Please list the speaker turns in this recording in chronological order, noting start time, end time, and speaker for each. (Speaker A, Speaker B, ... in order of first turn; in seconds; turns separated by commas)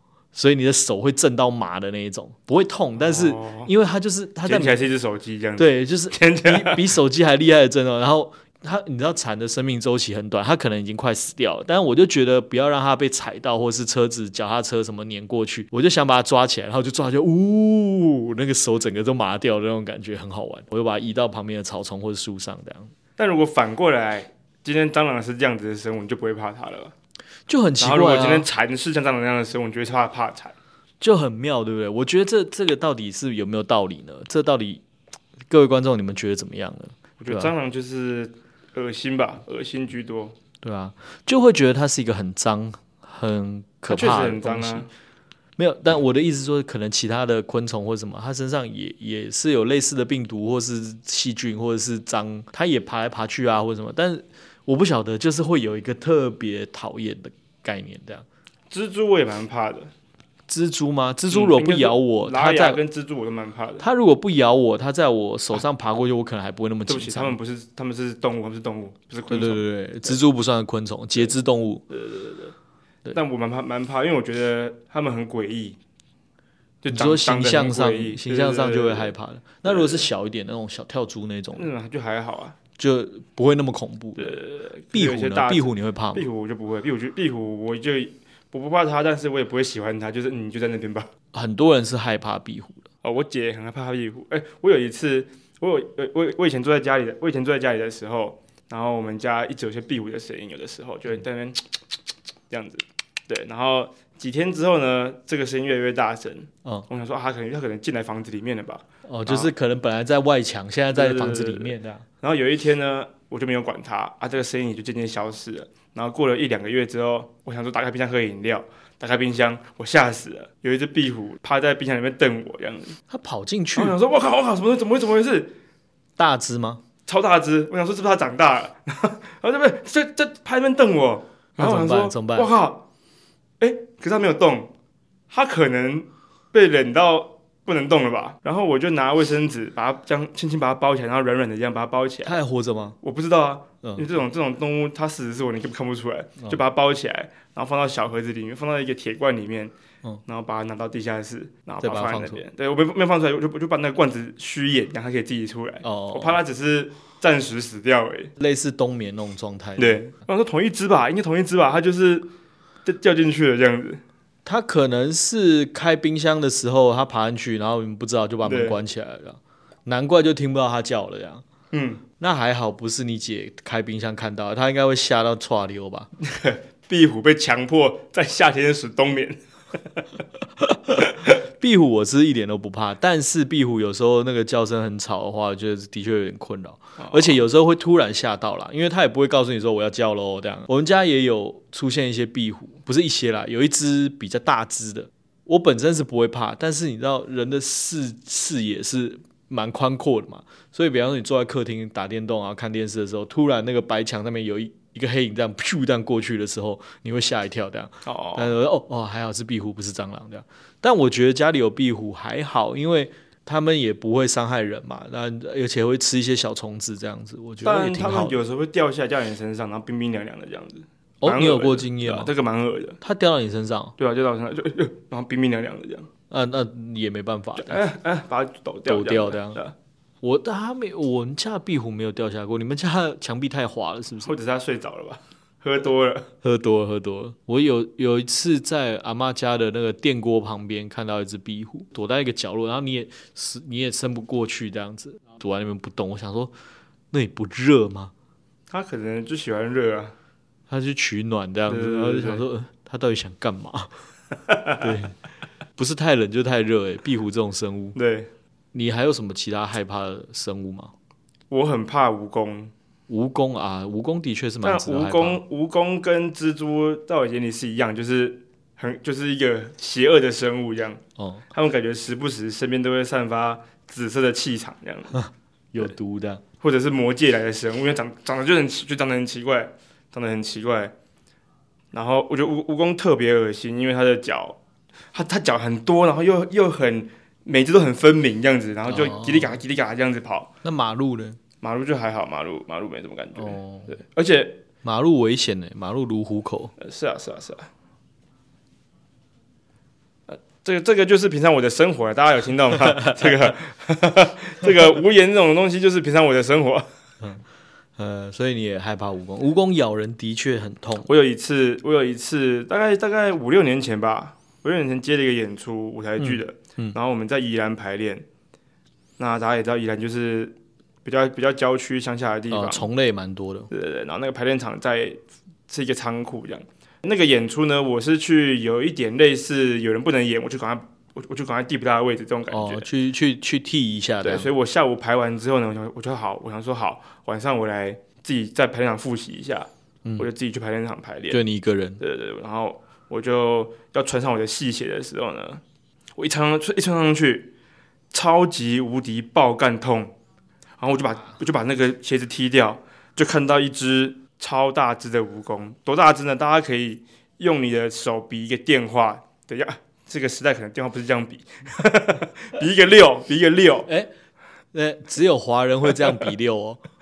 Speaker A: 0.3-4.8, Speaker B: 3.0-3.7, Speaker B: 4.5-6.9, Speaker A: 5.6-22.9, Speaker B: 23.2-26.9, Speaker A: 27.5-28.5, Speaker B: 27.8-30.6, Speaker A: 31.0-34.8, Speaker A: 35.5-37.5, Speaker B: 37.2-40.4, Speaker A: 40.6-44.9, Speaker B: 43.9-44.9, Speaker A: 45.6-58.3, Speaker B: 58.7-59.9, Speaker A: 60.5-62.8, Speaker B: 61.3-63.9, Speaker A: 63.8-67.3, Speaker B: 66.9-70.2, Speaker A: 69.3-71.8, Speaker B: 71.9-72.5, Speaker B: 73.1-75.8, Speaker B: 76.8-79.1, Speaker A: 76.9-81.7, Speaker B: 79.7-80.1, Speaker B: 81.6-82.6, Speaker A: 82.8-84.4, Speaker B: 84.2-91.1, Speaker A: 84.9-86.3, Speaker A: 91.3-92.9, Speaker B: 93.0-101.7, Speaker B: 102.5-109.5, Speaker A: 109.1-112.0, Speaker B: 110.9-123.0, Speaker A: 123.1-124.0, Speaker B: 123.8-125.5, Speaker A: 126.2-126.8, Speaker B: 127.1-132.8, Speaker A: 131.6-132.5, Speaker B: 133.6-134.7, Speaker B: 135.3-142.4, Speaker A: 142.2-143.0, Speaker B: 143.0-149.7, Speaker B: 150.3-158.3, Speaker A: 151.8-152.4, Speaker A: 155.8-156.4, Speaker A: 158.4-160.0, Speaker B: 159.8-162.3, Speaker B: 162.8-164.0, Speaker A: 164.4-171.4, Speaker B: 168.4-168.8, Speaker B: 171.7-172.0, Speaker A: 172.2-176.1, Speaker B: 176.2-180.0, Speaker A: 180.6-218.4, Speaker B: 181.0-181.3, Speaker B: 187.0-187.4, Speaker B: 208.1-208.5, Speaker B: 217.6-223.0, Speaker A: 221.2-222.3, Speaker A: 223.0-223.9, Speaker B: 224.0-226.1, Speaker A: 226.3-227.8, Speaker B: 227.6-229.7, Speaker A: 228.9-229.6, Speaker A: 230.2-234.3, Speaker B: 234.2-236.3, Speaker A: 236.4-246.5, Speaker A: 247.1-248.1, Speaker B: 248.7-250.1, Speaker A: 250.7-253.9, Speaker B: 251.7-252.4, Speaker B: 254.5-254.8, Speaker A: 254.8-255.2, Speaker A: 255.8-258.0, Speaker B: 257.9-258.3, Speaker A: 258.7-260.9, Speaker B: 261.5-262.7, Speaker A: 263.1-265.4, Speaker B: 264.6-271.0, Speaker A: 271.2-271.4, Speaker B: 271.5-275.2, Speaker A: 275.1-276.4, Speaker B: 276.6-280.9, Speaker B: 281.9-284.6, Speaker B: 285.1-290.5, Speaker A: 288.9-289.6, Speaker A: 290.6-291.4, Speaker B: 291.6-294.6, Speaker A: 293.4-293.9, Speaker A: 294.8-296.7, Speaker B: 296.8-297.7, Speaker B: 300.3-306.9, Speaker A: 308.0-311.1, Speaker B: 311.1-318.2, Speaker A: 316.2-317.0, Speaker B: 319.2-322.9, Speaker A: 322.5-323.7, Speaker B: 323.7-332.9, Speaker A: 332.5-334.5, Speaker B: 334.2-341.4, Speaker A: 341.3-342.0, Speaker B: 342.0-345.6, Speaker B: 346.2-347.5, Speaker B: 348.1-350.1, Speaker B: 350.8-363.9, Speaker A: 363.9-364.1, Speaker A: 364.7-366.8